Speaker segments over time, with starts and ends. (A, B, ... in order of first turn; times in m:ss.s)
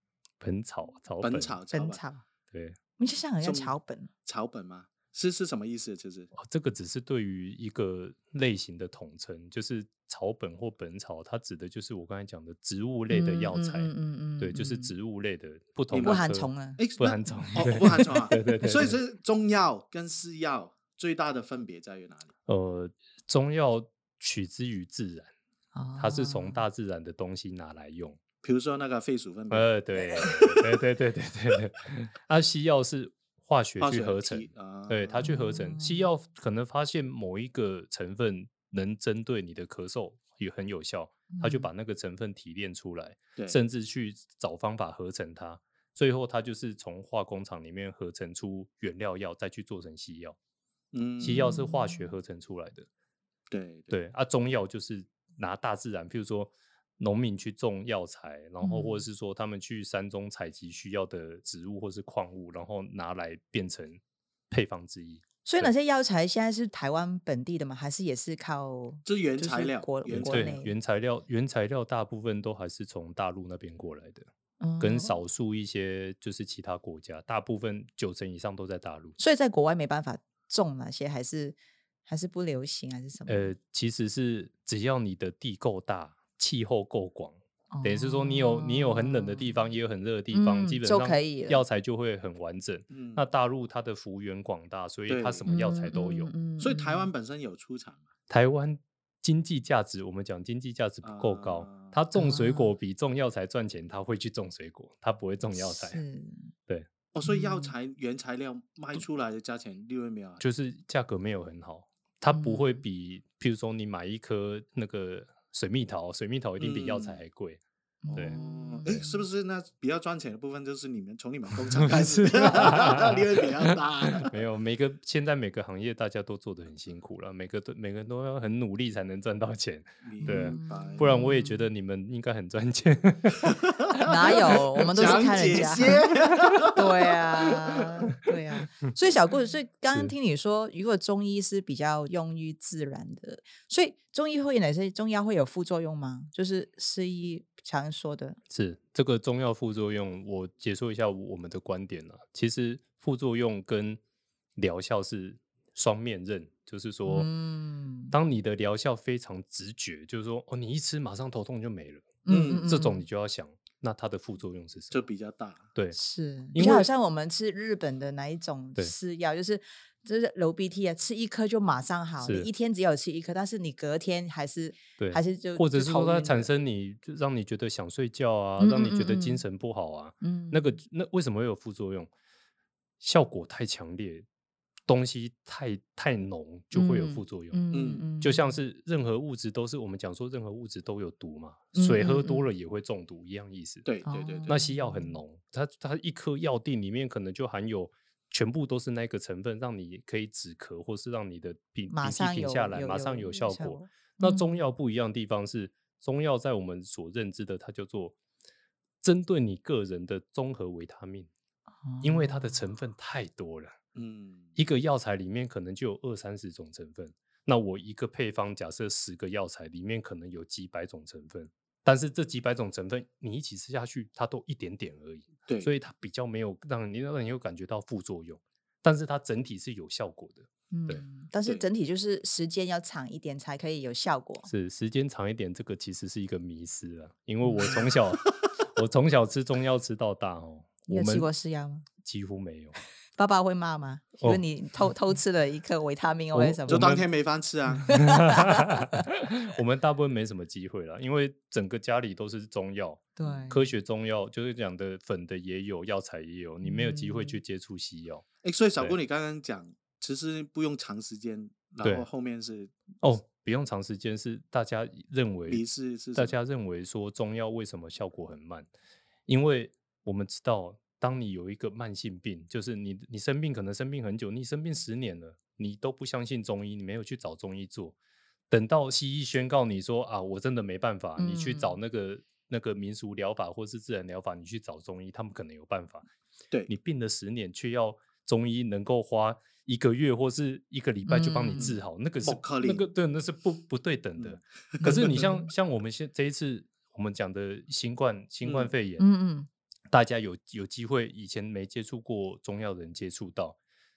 0:00.4-0:01.6 A
0:01.2-0:02.0 B
0:01.7-0:02.2 C
0:02.5-0:02.8 A
0:03.0-0:04.1 C
0:03.4-0:03.7 B
0:04.2-0:06.3 B
0:06.3-0:19.0 A
0:13.1-0:14.9 C
0:15.9-0:22.3 B
0:16.0-0:16.8 C
0:17.3-0:18.6 C
0:22.4-0:25.3 A
0:25.7-0:26.6 C
0:26.0-0:28.2 A
0:28.4-0:29.7 B
0:29.5-0:50.4 A
0:33.8-0:35.3 B
0:35.2-0:36.1 C
0:41.3-0:41.7 C
0:50.9-0:51.5 B
0:51.2-0:52.9 A
0:51.2-0:52.1 C
0:53.5-0:53.9 B
0:53.9-1:05.7 A
0:58.6-0:59.0 C
1:05.4-1:10.7 C
1:09.0-1:10.6 B
1:10.1-1:14.3 A
1:14.6-1:15.2 C
1:14.8-1:19.2 A
1:19.2-1:23.5 C
1:23.3-1:36.3 A
1:27.7-1:29.6 C
1:30.3-1:31.6 C
1:32.9-1:33.2 B
1:35.1-1:35.5 B
1:35.5-1:37.1 C
1:36.6-1:38.0 B
1:38.3-1:46.0 A
1:41.0-1:41.9 B
1:42.1-1:42.7 C
1:45.6-1:46.5 C
1:47.1-1:50.4 B
1:47.2-1:47.7 C
1:50.4-1:57.6 A
1:52.3-1:52.8 C
1:56.6-1:57.2 B
1:58.0-1:59.2 C
1:58.1-1:59.0 A
1:58.1-2:04.3 B
2:01.8-2:13.6 A
2:10.0-2:11.2 B
2:10.2-2:11.7 C
2:13.4-2:16.8 B
2:14.0-2:16.0 C
2:14.3-2:16.7 A
2:16.7-2:28.4 C
2:28.5-2:34.0 A
2:34.6-2:37.3 A
2:37.1-2:38.1 C
2:38.1-2:45.0 A
2:42.2-2:43.0 C
2:42.3-2:42.7 B
2:44.9-2:45.7 B
2:45.9-2:56.5 C
2:46.5-2:46.9 A
2:46.6-2:46.8 B
2:52.2-2:52.5 A
2:55.0-3:02.1 A
2:58.6-2:59.4 C
3:00.2-3:00.8 C
3:03.0-3:04.2 A
3:04.9-3:07.6 A
3:06.7-3:08.6 C
3:07.7-3:08.0 B
3:08.2-3:13.8 A
3:11.7-3:12.5 C
3:13.8-3:14.6 B
3:14.0-3:15.2 C
3:14.5-3:28.2 A
3:21.9-3:24.6 C
3:29.0-3:31.3 A
3:31.8-3:32.6 C
3:32.0-3:33.8 A
3:33.9-3:34.6 B
3:34.6-3:51.0 A
3:50.7-3:54.5 C
3:54.4-4:01.3 A
3:57.4-3:57.8 C
3:58.0-3:58.5 B
4:00.9-4:01.8 C
4:02.0-4:02.7 A
4:03.2-4:06.9 C
4:06.3-4:07.0 A
4:06.7-4:07.9 B
4:07.8-4:09.0 C
4:07.9-4:18.2 A
4:13.2-4:13.7 C
4:16.6-4:17.4 C
4:18.4-4:22.7 B
4:23.0-4:25.6 A
4:25.5-4:26.4 B
4:26.1-4:28.7 A
4:29.3-4:38.0 A
4:38.5-4:46.0 A
4:41.2-4:41.8 C
4:46.7-4:59.0 A
4:51.0-4:51.7 C
4:51.5-4:52.9 B
4:54.2-4:55.2 B
4:54.8-4:55.5 C
4:58.4-4:58.7 B
4:59.0-4:59.5 C
4:59.9-5:03.6 A